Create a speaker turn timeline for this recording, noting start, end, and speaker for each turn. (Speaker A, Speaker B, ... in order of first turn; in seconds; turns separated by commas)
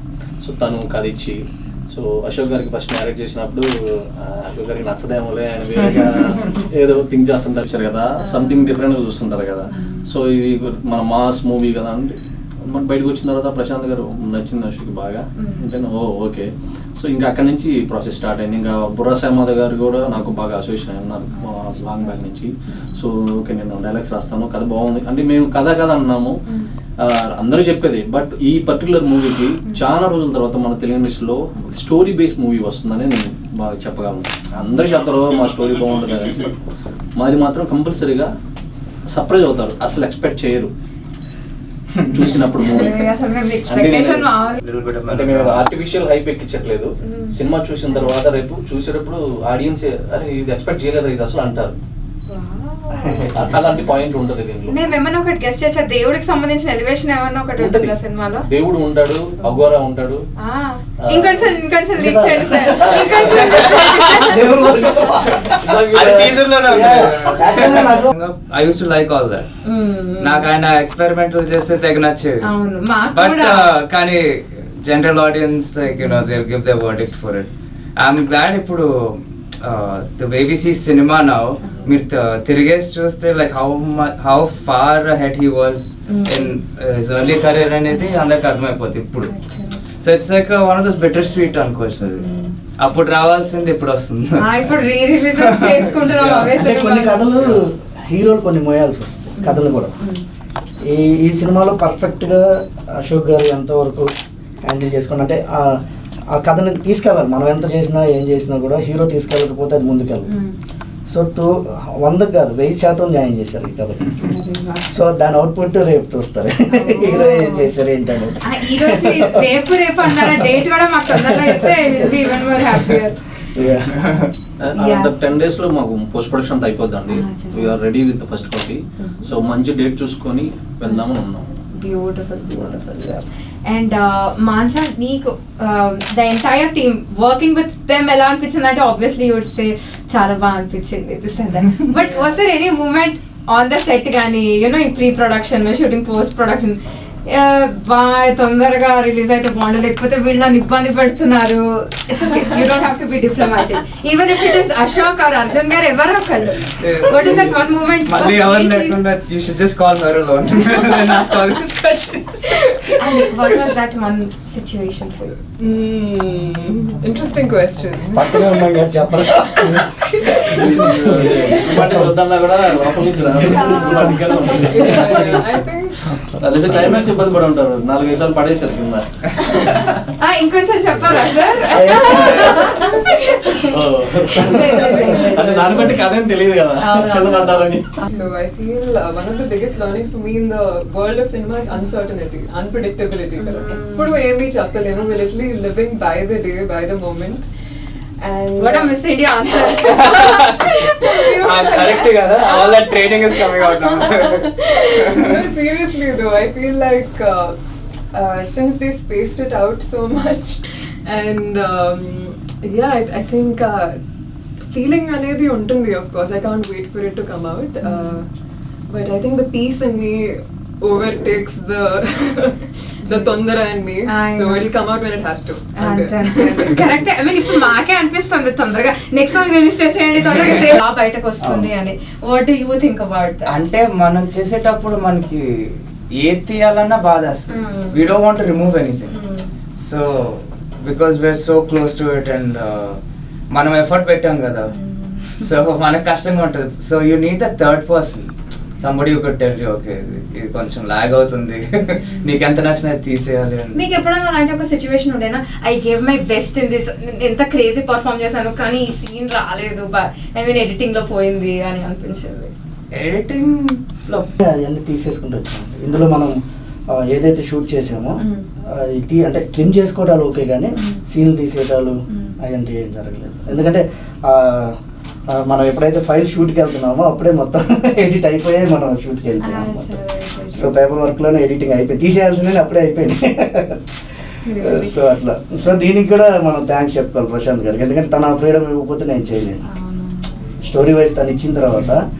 Speaker A: 0.4-26.4, Speaker B: 8.2-8.8, Speaker B: 9.7-10.1, Speaker B: 15.4-15.7, Speaker A: 27.0-36.6, Speaker A: 37.1-38.3, Speaker A: 39.1-40.7, Speaker C: 41.9-42.4, Speaker A: 42.1-43.1, Speaker B: 42.6-44.6, Speaker A: 43.7-44.3, Speaker C: 44.6-45.6, Speaker A: 45.1-51.8, Speaker B: 47.0-48.5, Speaker B: 52.3-53.4, Speaker D: 52.9-53.5, Speaker A: 53.3-54.8, Speaker B: 54.7-58.5, Speaker A: 57.6-57.9, Speaker A: 58.4-60.2, Speaker B: 60.4-64.4, Speaker A: 61.0-61.5, Speaker D: 62.0-65.5, Speaker A: 62.8-63.6, Speaker C: 63.2-64.3, Speaker C: 65.4-69.5, Speaker A: 65.6-66.4, Speaker D: 66.7-68.1, Speaker B: 69.6-70.5, Speaker C: 70.2-72.4, Speaker B: 72.4-73.7, Speaker C: 73.1-89.3, Speaker B: 81.6-81.9, Speaker B: 86.1-86.5, Speaker B: 89.2-89.8, Speaker C: 90.0-92.2, Speaker B: 92.0-92.5, Speaker C: 92.8-94.7, Speaker B: 94.4-97.2, Speaker C: 95.4-96.6, Speaker D: 96.6-99.9, Speaker B: 99.4-100.2, Speaker D: 100.8-104.1, Speaker D: 104.6-105.8, Speaker D: 106.3-110.3, Speaker B: 110.3-110.6, Speaker D: 111.1-114.2, Speaker B: 114.2-114.9, Speaker D: 114.9-119.5, Speaker B: 116.7-117.7, Speaker B: 118.4-123.2, Speaker D: 120.0-120.5, Speaker D: 121.2-122.6, Speaker D: 123.5-123.9, Speaker C: 123.5-124.3, Speaker A: 124.6-131.5, Speaker B: 124.8-125.3, Speaker B: 127.1-127.8, Speaker B: 129.0-129.3, Speaker B: 131.7-159.0, Speaker D: 132.5-133.2, Speaker C: 156.6-157.5, Speaker C: 158.1-162.3, Speaker E: 162.5-162.9, Speaker B: 162.5-165.3, Speaker E: 165.6-168.7, Speaker D: 168.1-171.9, Speaker E: 169.5-170.7, Speaker A: 170.5-175.5, Speaker B: 173.5-174.7, Speaker E: 174.6-176.2, Speaker A: 176.1-179.8, Speaker B: 180.0-183.8, Speaker D: 181.7-182.6, Speaker A: 181.9-188.0, Speaker B: 184.3-185.9, Speaker D: 184.3-186.0, Speaker E: 184.8-185.8, Speaker B: 186.8-188.3, Speaker E: 188.1-197.4, Speaker B: 193.4-194.2, Speaker E: 198.2-198.9, Speaker B: 198.6-202.7, Speaker C: 199.8-205.5, Speaker E: 203.9-207.6, Speaker E: 208.1-214.0, Speaker E: 214.6-218.3, Speaker B: 217.8-218.2, Speaker E: 218.9-226.7, Speaker B: 223.1-223.3, Speaker B: 224.0-224.7, Speaker B: 225.8-233.6, Speaker C: 231.4-231.7, Speaker C: 233.5-239.1, Speaker B: 237.5-238.1, Speaker B: 239.1-239.5, Speaker C: 239.8-244.7, Speaker B: 244.7-245.4, Speaker C: 245.3-253.8, Speaker B: 252.0-252.4, Speaker B: 253.7-262.5, Speaker C: 262.9-264.3, Speaker D: 264.4-266.4, Speaker D: 266.9-268.2, Speaker B: 268.2-268.4, Speaker D: 268.7-274.8, Speaker B: 270.8-271.0, Speaker B: 272.1-272.4, Speaker D: 275.3-280.0, Speaker B: 279.4-280.7, Speaker D: 280.5-283.8, Speaker B: 284.4-285.0, Speaker D: 284.6-289.6, Speaker B: 289.7-290.3, Speaker D: 290.6-292.0